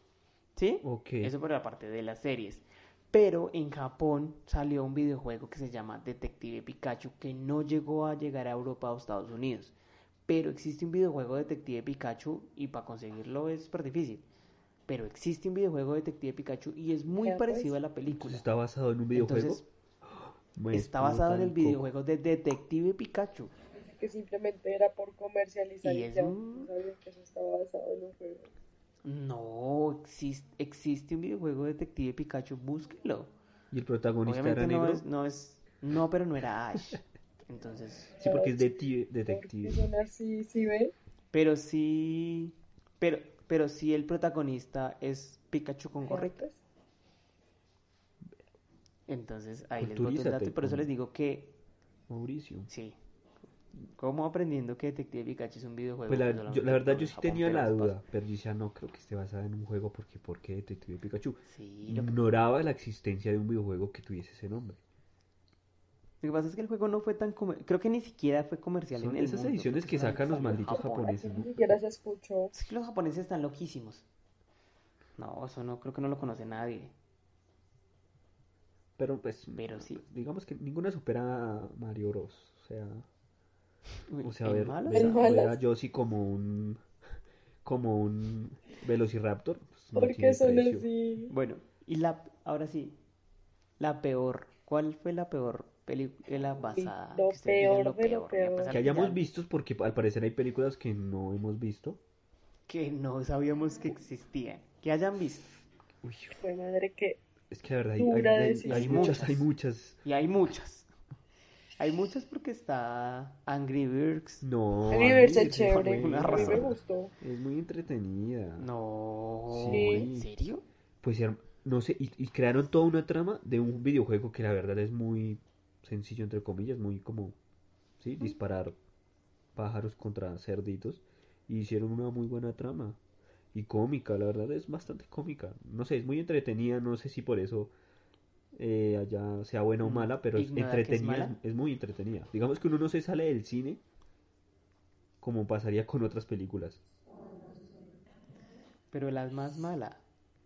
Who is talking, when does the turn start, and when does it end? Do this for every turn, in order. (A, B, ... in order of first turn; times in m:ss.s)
0:00.6-0:09.7 A
0:00.8-0:01.3 B
0:10.3-0:14.2 A
0:14.9-0:18.5 A
0:17.1-0:17.8 C
0:18.1-0:21.9 B
0:19.1-0:19.7 A
0:20.7-0:23.5 A
0:23.8-0:28.5 C
0:25.8-0:26.7 A
0:29.0-0:33.3 A
0:33.7-0:35.0 B
0:34.2-0:38.2 A
0:38.2-0:40.9 C
0:38.2-0:39.8 B
0:41.3-0:46.4 A
0:46.1-0:46.6 C
0:49.1-0:51.6 A
0:49.8-0:50.9 B
0:52.1-0:52.7 B
0:52.7-0:53.0 A
0:54.0-0:58.0 A
0:56.1-1:04.8 B
1:01.5-1:02.2 A
1:06.2-1:11.1 A
1:08.9-1:11.8 B
1:10.2-1:12.5 C
1:12.5-1:14.0 A
1:15.2-1:16.9 A
1:19.0-1:23.1 B
1:19.6-1:20.0 A
1:24.1-1:25.3 A
1:24.2-1:26.8 B
1:24.9-1:25.6 C
1:27.6-1:30.9 B
1:30.0-1:31.3 C
1:31.3-1:33.0 A
1:33.8-1:39.2 A
1:36.7-1:38.8 C
1:38.7-1:42.0 B
1:42.7-1:45.5 A
1:46.0-1:46.4 B
1:46.4-1:47.2 C
1:47.5-1:50.0 B
1:48.0-1:49.2 C
1:48.6-1:49.5 A
1:50.0-1:50.9 A
1:51.8-1:54.4 A
1:54.4-1:58.7 B
1:54.9-1:57.1 C
1:55.7-1:56.7 A
1:58.6-2:00.6 A
1:59.5-2:00.3 B
1:59.7-2:00.1 C
2:01.0-2:07.4 B
2:08.0-2:08.8 B
2:09.6-2:13.0 B
2:13.5-2:17.7 B
2:18.6-2:23.8 B
2:19.8-2:21.4 A
2:25.2-2:26.8 B
2:28.9-2:30.0 A